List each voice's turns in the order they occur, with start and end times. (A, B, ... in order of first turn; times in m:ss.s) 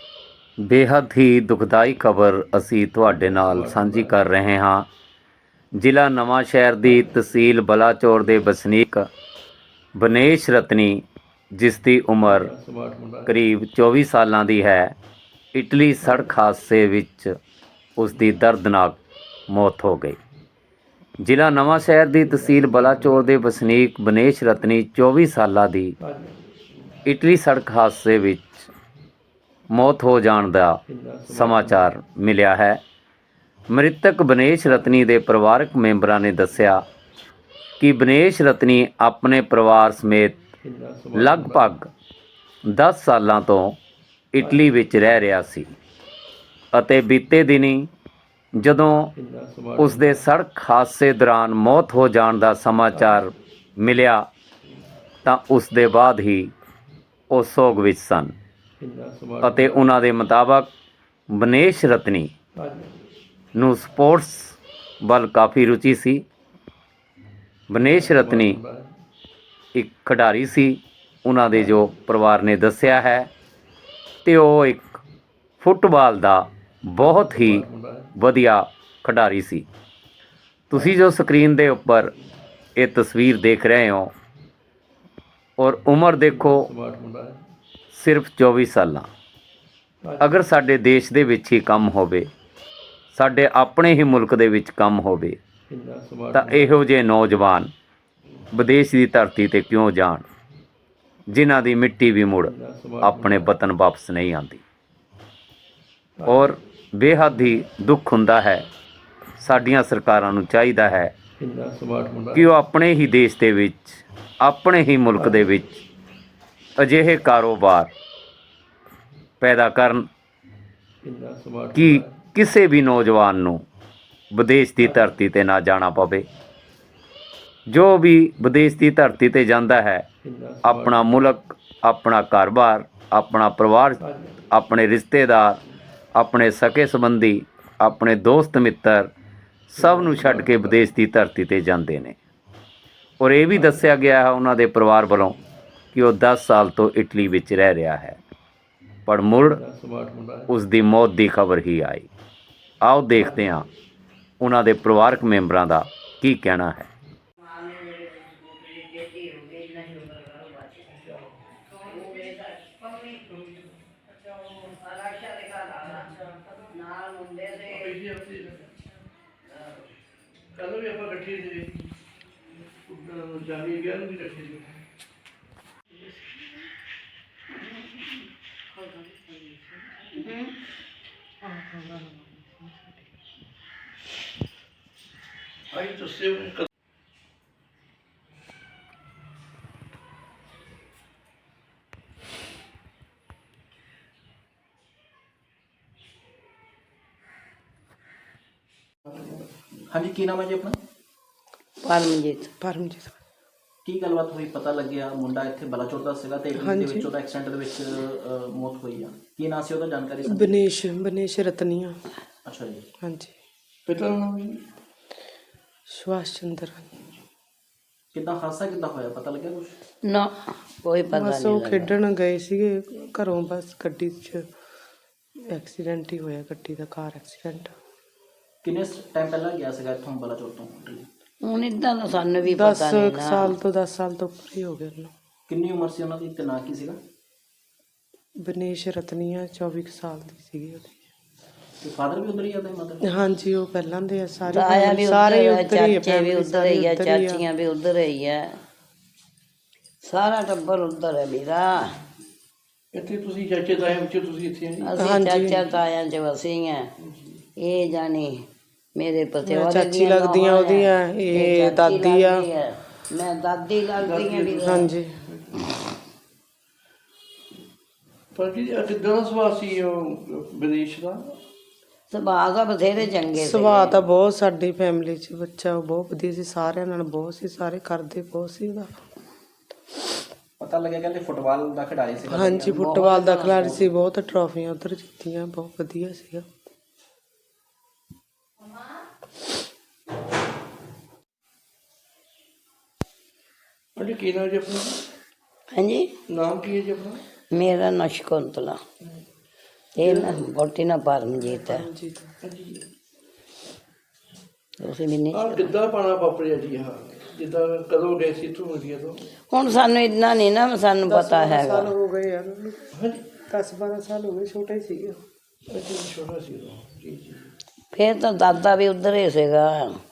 0:00.7-0:04.9 A
0:03.1-0:04.2 B
0:05.8-0:09.1 A
0:06.8-0:07.1 B
0:10.0-0:11.0 A
0:11.6-0:12.5 A
0:12.2-0:13.4 B
0:13.3-0:14.9 A
0:15.6-0:17.2 A
0:18.0-0:19.0 A
0:19.5-0:20.2 A
0:21.2-0:26.0 A
0:22.2-0:23.4 B
0:26.0-0:26.4 B
0:27.2-0:28.6 A
0:29.7-0:30.8 A
0:30.9-0:32.0 B
0:31.3-0:32.8 A
0:33.7-0:36.8 A
0:37.8-0:40.4 A
0:40.6-0:41.8 B
0:41.2-0:41.8 A
0:42.7-0:43.8 A
0:44.3-0:45.7 A
0:44.4-0:44.8 B
0:46.7-0:47.9 A
0:48.6-0:49.1 A
0:49.1-0:50.3 B
0:49.8-0:54.3 A
0:52.9-0:53.2 B
0:55.2-0:56.5 A
0:57.3-0:58.3 A
0:58.8-0:59.9 B
0:59.4-1:00.7 A
1:01.3-1:02.3 A
1:02.6-1:02.9 B
1:03.6-1:04.4 A
1:05.0-1:06.2 A
1:07.7-1:08.6 A
1:07.9-1:08.9 B
1:09.8-1:13.3 A
1:14.2-1:14.9 A
1:15.6-1:17.6 A
1:17.2-1:18.2 B
1:18.2-1:19.7 A
1:20.8-1:22.1 A
1:22.8-1:24.1 A
1:25.6-1:26.7 A
1:26.3-1:27.4 B
1:27.9-1:29.1 A
1:30.0-1:30.4 B
1:30.3-1:32.3 A
1:33.2-1:35.4 A
1:35.7-1:36.8 B
1:36.4-1:37.7 A
1:38.5-1:40.2 A
1:41.3-1:44.6 A
1:42.4-1:43.6 B
1:46.2-1:46.6 B
1:46.3-1:48.7 A
1:49.4-1:51.1 A
1:51.4-1:52.5 B
1:52.4-1:55.7 A
1:55.2-1:55.5 B
1:56.8-1:57.9 A
1:59.4-2:00.1 A
2:01.0-2:02.3 B
2:01.8-2:03.6 A
2:04.3-2:06.2 A
2:07.7-2:10.1 A
2:10.2-2:11.2 B
2:10.7-2:14.0 A
2:14.0-2:14.4 B
2:14.5-2:15.6 A
2:16.2-2:19.1 A
2:19.7-2:20.9 B
2:19.8-2:22.2 A
2:23.2-2:25.4 A
2:23.5-2:23.9 B
2:25.9-2:28.2 A
2:29.1-2:29.6 A
2:29.4-2:30.6 B
2:30.5-2:32.1 A
2:32.8-2:33.6 A
2:33.2-2:33.6 B
2:34.4-2:36.9 A
2:37.4-2:40.9 C
2:40.9-2:41.4 B
2:41.7-2:43.5 C
2:44.2-2:47.9 C
2:47.7-2:48.6 B
2:50.6-2:51.8 B
2:52.9-2:54.8 B
2:58.7-3:00.1 D
3:00.2-3:00.5 C
3:01.4-3:03.0 D
3:05.7-3:06.7 B
3:19.1-3:19.4 B
3:19.9-3:20.8 E
3:21.8-3:22.5 C
3:22.6-3:23.2 D
3:23.8-3:30.6 E
3:26.6-3:27.1 D
3:30.2-3:32.0 D
3:32.4-3:32.8 E
3:33.0-3:33.3 D
3:33.9-3:34.6 B
3:35.9-3:36.9 D
3:38.1-3:39.8 E
3:40.1-3:41.9 C
3:41.1-3:44.4 D
3:45.5-3:47.7 D
3:48.6-3:51.1 E
3:51.4-3:53.5 C
3:52.4-3:55.1 D
3:55.5-3:57.0 E
3:58.4-4:01.0 D
4:01.8-4:03.0 E
4:03.0-4:07.4 D
4:04.5-4:08.6 C
4:10.0-4:12.0 C
4:12.9-4:15.0 B
4:14.8-4:16.9 C
4:15.0-4:15.7 D
4:17.6-4:18.4 C
4:19.0-4:24.8 C
4:19.4-4:22.5 D
4:24.0-4:25.7 B
4:24.6-4:25.2 D
4:28.3-4:31.4 B
4:32.1-4:34.0 C
4:33.3-4:39.0 D
4:40.6-4:42.9 E
4:42.3-4:46.5 D
4:42.8-4:43.9 C
4:54.0-4:55.0 B
4:55.7-4:56.1 C
4:56.3-4:57.2 B
4:57.5-4:58.8 C
5:00.0-5:01.8 C
5:00.0-5:00.4 B
5:01.4-5:02.3 D
5:02.4-5:02.8 B
5:04.8-5:05.7 C
5:05.3-5:09.3 B
5:09.5-5:11.9 C
5:11.0-5:12.8 D
5:12.9-5:13.2 B
5:13.5-5:15.2 D
5:15.7-5:17.5 B
5:17.9-5:20.0 C